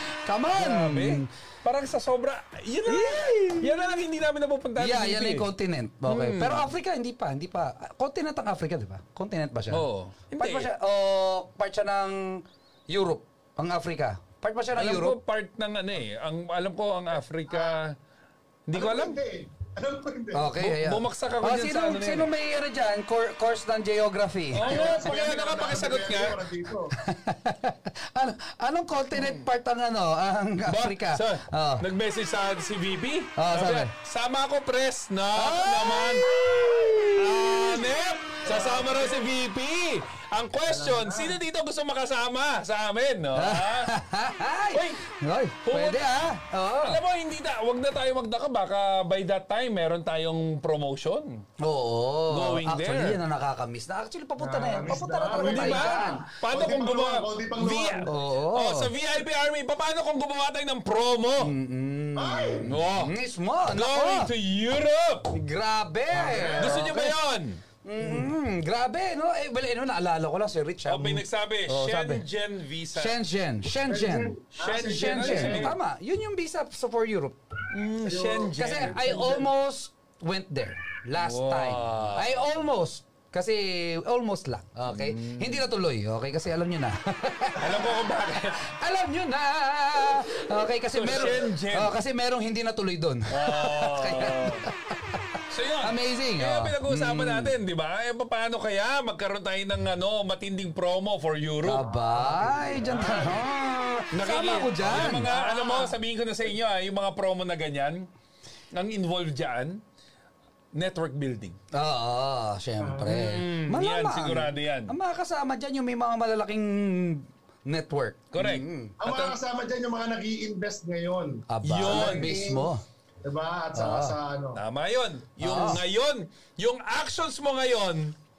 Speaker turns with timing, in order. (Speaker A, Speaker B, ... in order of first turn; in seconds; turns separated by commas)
Speaker A: 0.2-1.3, Speaker B: 0.5-5.5, Speaker A: 2.9-4.0, Speaker A: 4.8-15.2, Speaker B: 6.0-6.7, Speaker B: 9.7-10.7, Speaker B: 14.7-18.0, Speaker C: 17.5-17.8, Speaker B: 18.7-19.2, Speaker C: 18.7-20.5, Speaker A: 20.3-24.8, Speaker B: 20.6-22.3, Speaker B: 24.5-26.4, Speaker C: 24.6-26.9, Speaker A: 27.0-31.9, Speaker B: 29.1-29.5, Speaker B: 30.6-36.3, Speaker A: 33.4-33.9, Speaker A: 35.4-37.8, Speaker C: 36.2-37.1, Speaker B: 37.1-43.9, Speaker C: 38.4-39.3, Speaker C: 40.6-41.4, Speaker A: 43.3-47.0, Speaker B: 44.7-45.0, Speaker B: 45.6-46.0, Speaker B: 46.8-51.4, Speaker A: 51.6-56.2, Speaker B: 52.3-53.2, Speaker C: 54.4-58.1, Speaker B: 55.4-61.5, Speaker A: 58.0-58.9, Speaker A: 61.4-64.3, Speaker C: 62.1-62.7, Speaker B: 62.7-63.1, Speaker B: 63.7-65.3, Speaker A: 65.3-67.2, Speaker C: 66.1-66.9, Speaker B: 66.6-67.6, Speaker A: 67.8-72.2, Speaker C: 68.0-68.3, Speaker B: 70.8-73.2, Speaker A: 72.9-77.4, Speaker C: 73.8-75.8, Speaker B: 74.5-75.8, Speaker B: 77.7-79.0, Speaker C: 78.0-79.5, Speaker A: 78.5-87.9, Speaker B: 81.2-82.5, Speaker B: 84.9-85.7, Speaker B: 87.6-88.7, Speaker A: 88.5-95.2, Speaker B: 90.9-92.0, Speaker B: 93.3-94.6, Speaker B: 95.5-101.8, Speaker A: 95.8-97.5, Speaker A: 101.6-105.3, Speaker C: 101.9-103.4, Speaker B: 102.8-103.3, Speaker B: 104.1-108.1, Speaker C: 105.1-106.0, Speaker B: 108.7-109.8, Speaker B: 110.7-111.6, Speaker A: 111.7-119.0, Speaker C: 112.8-113.1, Speaker B: 113.0-114.9, Speaker B: 118.3-119.3, Speaker C: 119.0-124.6, Speaker A: 121.5-122.8, Speaker B: 121.6-122.3, Speaker A: 123.7-124.2, Speaker B: 124.5-128.1, Speaker A: 125.4-125.8